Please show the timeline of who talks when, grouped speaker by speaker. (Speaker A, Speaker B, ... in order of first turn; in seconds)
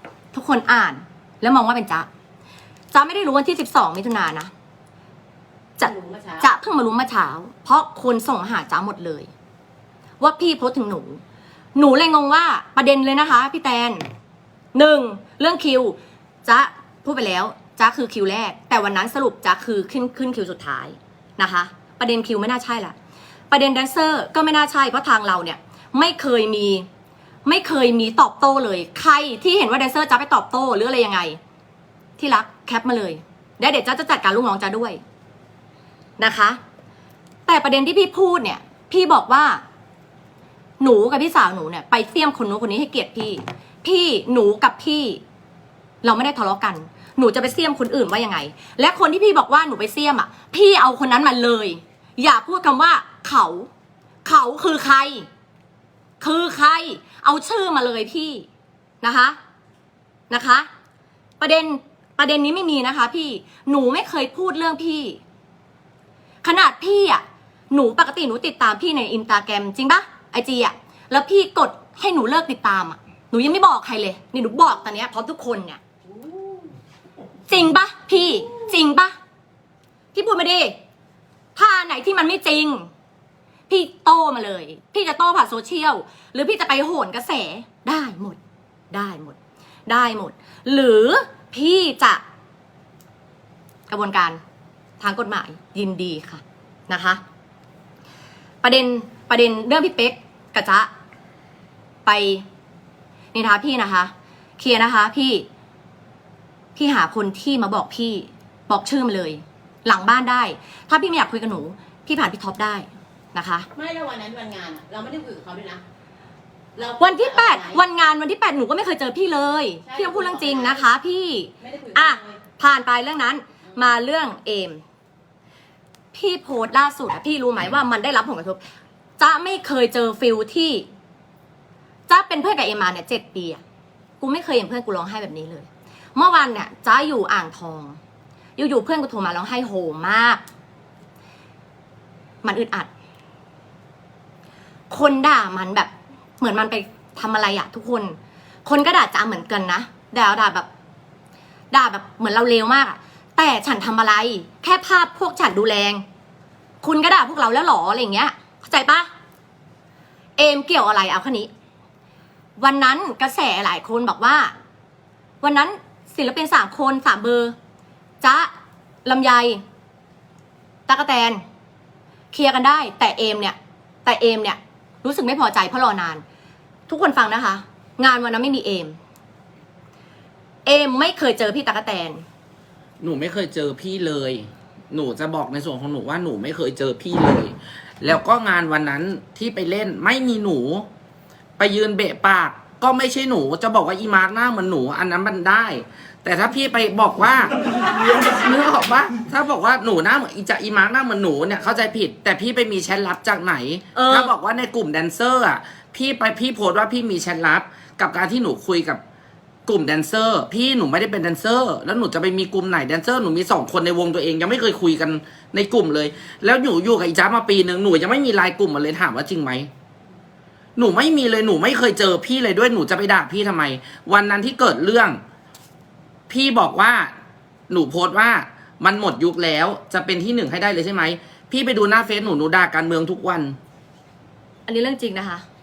Speaker A: 0.3-2.1, 2.9-4.5, 5.8-9.3, 10.2-11.2, 11.8-14.0, 14.7-23.0, 23.5-26.9, 27.4-31.4, 32.2-35.0, 36.2-36.6, 37.5-39.6, 40.8-45.2, 46.0-53.7, 54.2-55.3, 56.2-58.5, 59.0-59.4, 60.3-60.7, 61.4-65.2, 66.4-75.8, 77.5-79.2, 80.1-80.8, 81.6-82.9, 83.7-88.4, 88.9-92.2, 93.9-94.4, 95.0-97.2, 98.6-100.9, 102.1-102.5, 103.3-105.5, 106.8-113.7, 117.0-124.8, 126.1-128.6, 129.2-130.9, 132.1-133.6, 134.2-138.0, 138.6-140.4, 142.4-142.9, 144.9-150.7, 151.7-156.0, 156.8-159.1, 160.4-161.5, 162.6-164.5, 165.4-167.6, 168.2-168.5, 169.1-169.6, 170.9-171.4, 172.3-176.2, 176.9-179.0, 180.7-182.2, 203.9-204.3, 234.7-235.4
Speaker B: 5.8-6.5, 76.1-76.7, 113.8-115.8, 116.8-117.8, 119.9-120.9, 121.6-122.4
Speaker C: 183.0-190.9, 191.6-209.0, 209.7-219.7, 220.8-225.2, 226.3-227.1, 227.7-233.6